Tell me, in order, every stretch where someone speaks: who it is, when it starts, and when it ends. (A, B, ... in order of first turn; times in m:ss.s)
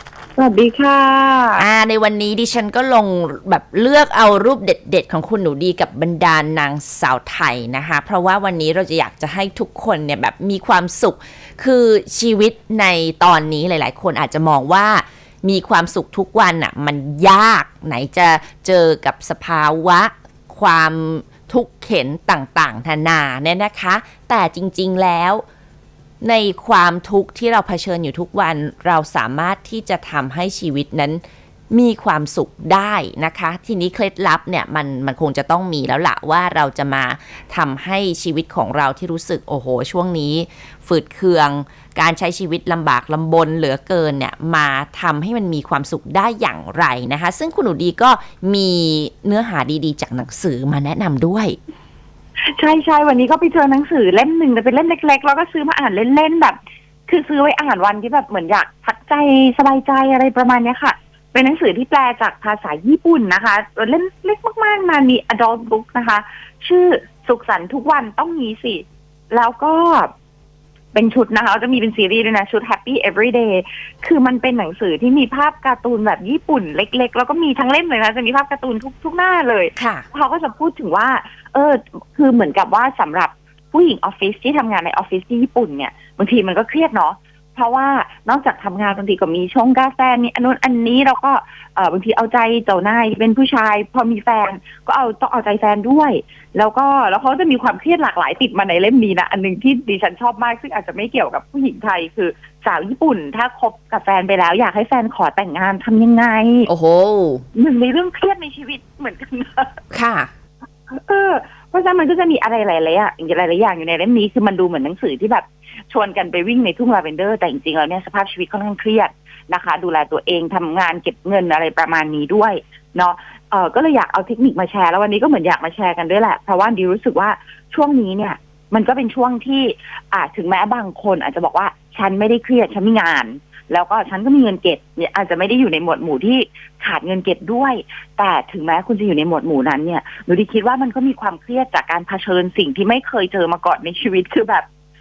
0:00.4-0:01.7 A
0:01.6-0:25.4 B
0:26.2-0:51.6 B
0:52.5-1:10.1 A
1:10.9-1:46.7 A
1:19.8-1:20.0 B
1:46.7-1:47.4 B
1:47.5-1:49.8 A
1:49.9-1:50.3 B
1:50.9-2:24.6 A